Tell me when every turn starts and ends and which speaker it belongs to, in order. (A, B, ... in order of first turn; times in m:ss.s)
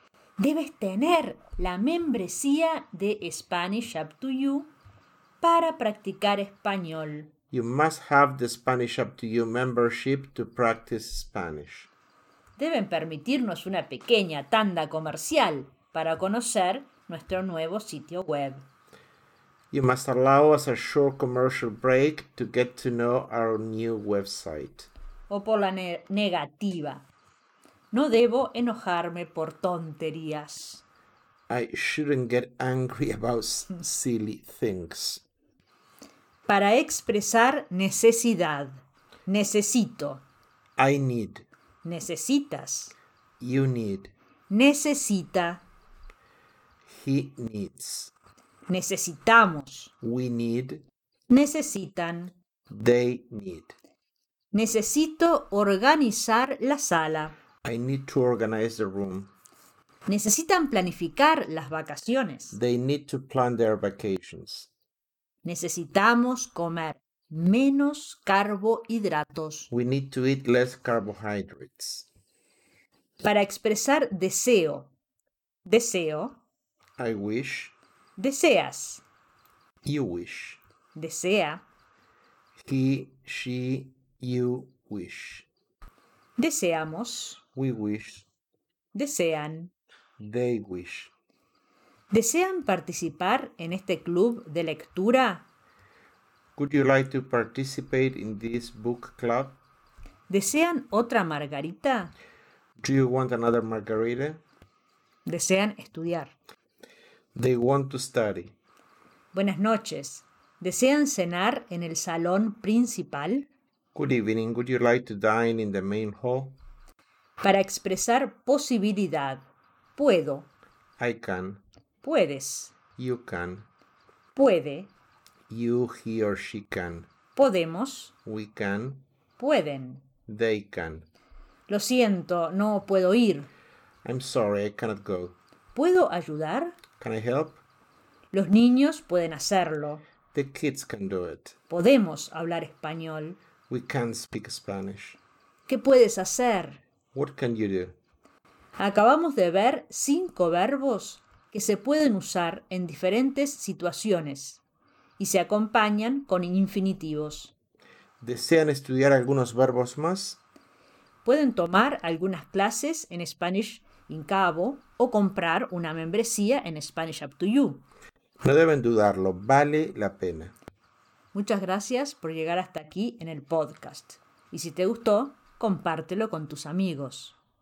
0:00.4-0:04.7 A
0:05.4-0:07.3 A
0:07.5-0:11.9 B
0:12.6-0:18.7 A
0:19.7-0:24.9 B
0:25.3-0:27.1 A
0:27.9-0:30.8 A
0:31.5-0:35.2 B
0:36.5-0:40.2 A
0:40.8-0:41.4 B
0:41.8-0:42.9 A
0:43.4-0:44.1 B
0:44.5-0:45.6 A
0:46.9-0:48.1 B
0:48.7-0:49.9 A
0:50.0-0:50.8 B
0:51.3-0:52.3 A
0:52.7-0:53.8 B
0:54.5-0:57.3 A
0:57.6-0:59.3 B
1:00.1-1:02.6 A
1:02.5-1:04.7 B
1:05.4-1:09.7 A
1:09.7-1:12.1 B
1:13.2-1:14.9 A
1:15.7-1:16.4 A
1:17.0-1:17.8 B
1:18.2-1:19.0 A
1:19.8-1:20.6 B
1:21.0-1:21.6 A
1:22.6-1:25.5 B
1:26.4-1:27.4 A
1:27.6-1:28.3 B
1:28.9-1:29.7 A
1:30.2-1:31.1 B
1:32.1-1:35.4 A
1:36.6-1:39.6 B
1:40.3-1:42.1 A
1:42.8-1:44.4 B
1:45.3-1:46.3 A
1:47.4-1:48.6 B
1:49.3-1:53.5 A
1:53.9-1:56.6 B
1:57.4-2:00.5 A
2:01.0-2:01.6 B
2:02.0-2:02.8 A
2:03.0-2:03.7 B
2:04.4-2:04.9 A
2:05.5-2:07.1 B
2:07.4-2:08.1 A
2:08.2-2:09.0 B
2:09.4-2:10.0 A
2:10.3-2:11.1 B
2:11.7-2:13.5 A
2:14.0-2:15.4 B
2:15.8-2:16.8 A
2:17.0-2:17.6 B
2:18.3-2:20.0 A
2:20.3-2:21.6 B
2:21.7-2:23.4 A
2:23.7-2:25.2 B
2:25.7-2:26.8 A
2:27.1-2:28.0 B
2:28.8-2:34.6 A
2:35.2-2:37.5 A
2:38.2-2:40.4 B
2:41.2-2:47.8 A
2:48.4-2:50.6 B
2:51.3-2:57.4 A